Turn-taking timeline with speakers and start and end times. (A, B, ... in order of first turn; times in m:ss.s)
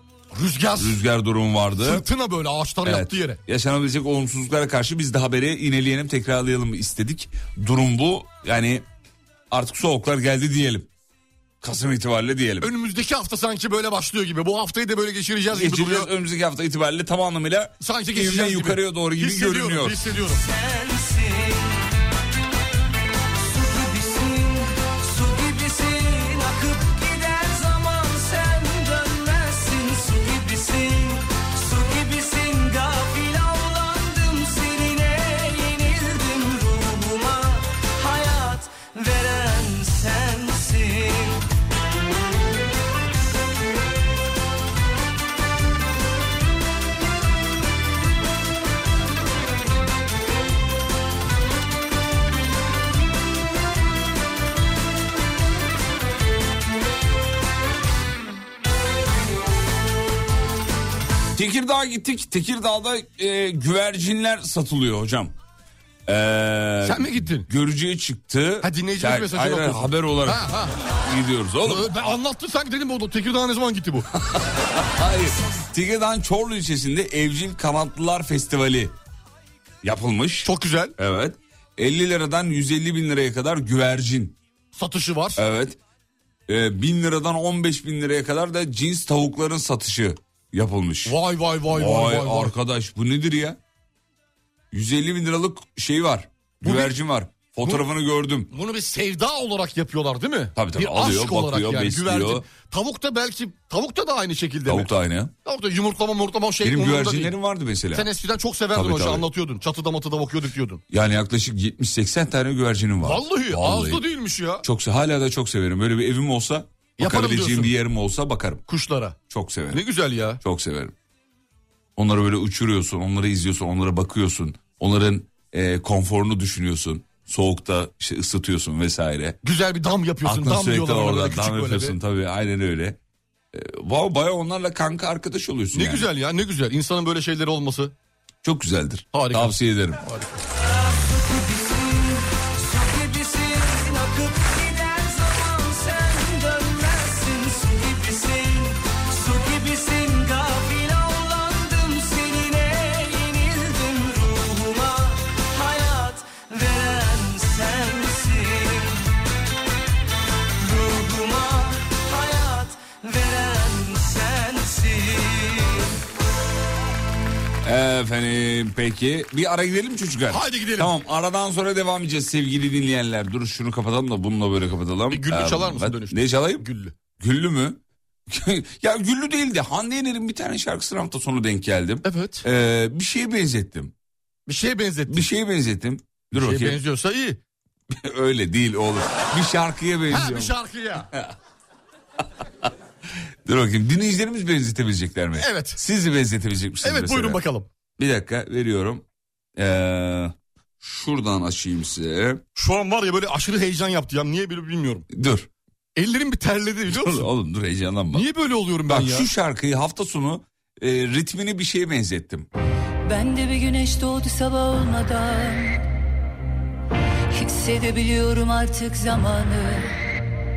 0:00.3-0:01.0 A
0:00.8-0:02.0 B
0:01.8-0:03.4 A
0:02.8-0:08.8 B
0:09.5-0:10.9 B
0:11.6-0:12.7 B
0:12.6-0:16.1 A
0:15.5-0:20.0 B
0:17.8-0:20.4 A
0:20.3-0:21.8 C
0:23.4-0:41.4 C
1:01.3-1:05.3 B
1:06.1-1:11.9 B
1:06.8-1:07.5 A
1:08.6-1:10.8 A
1:11.6-1:14.1 A
1:14.2-1:19.0 B
1:19.8-1:24.4 B
1:20.4-1:20.9 A
1:24.7-1:25.4 A
1:25.4-1:25.8 B
1:26.5-1:31.2 B
1:31.0-1:32.5 A
1:31.7-1:33.6 B
1:34.7-1:38.5 B
1:36.6-1:36.9 A
1:38.5-1:44.9 A
1:40.6-1:42.4 B
1:44.7-1:45.3 B
1:45.4-1:47.3 A
1:46.6-1:48.1 B
1:47.9-1:50.8 A
1:48.7-1:49.3 B
1:50.9-1:54.0 B
1:53.0-1:54.6 A
1:54.6-1:58.6 B
1:57.0-1:57.7 A
1:58.7-1:59.2 A
1:59.3-1:59.8 B
1:59.7-2:00.4 A
2:00.4-2:00.9 B
2:02.0-2:09.4 B
2:09.4-2:12.0 A
2:10.2-2:13.0 B
2:13.5-2:16.1 B
2:15.7-2:17.9 A
2:18.4-2:20.0 B
2:19.1-2:20.4 A
2:20.6-2:39.0 C
2:40.6-2:45.9 C
2:47.6-2:56.6 B
2:50.3-2:50.9 A
2:55.1-2:56.9 A
2:57.2-3:03.9 B
3:02.0-3:02.4 A
3:04.5-3:05.3 A
3:05.1-3:06.8 B
3:06.3-3:07.4 A
3:07.9-3:10.5 B
3:10.1-3:11.1 A
3:13.4-3:17.4 B
3:15.4-3:15.8 A
3:16.8-3:17.7 A
3:18.0-3:19.0 B
3:19.6-3:22.4 B
3:22.6-3:25.1 A
3:25.1-3:25.5 B
3:26.0-3:27.3 A
3:26.9-3:28.3 B
3:28.1-3:29.3 A
3:28.9-3:32.5 B
3:33.0-3:35.8 D
3:37.3-3:40.0 D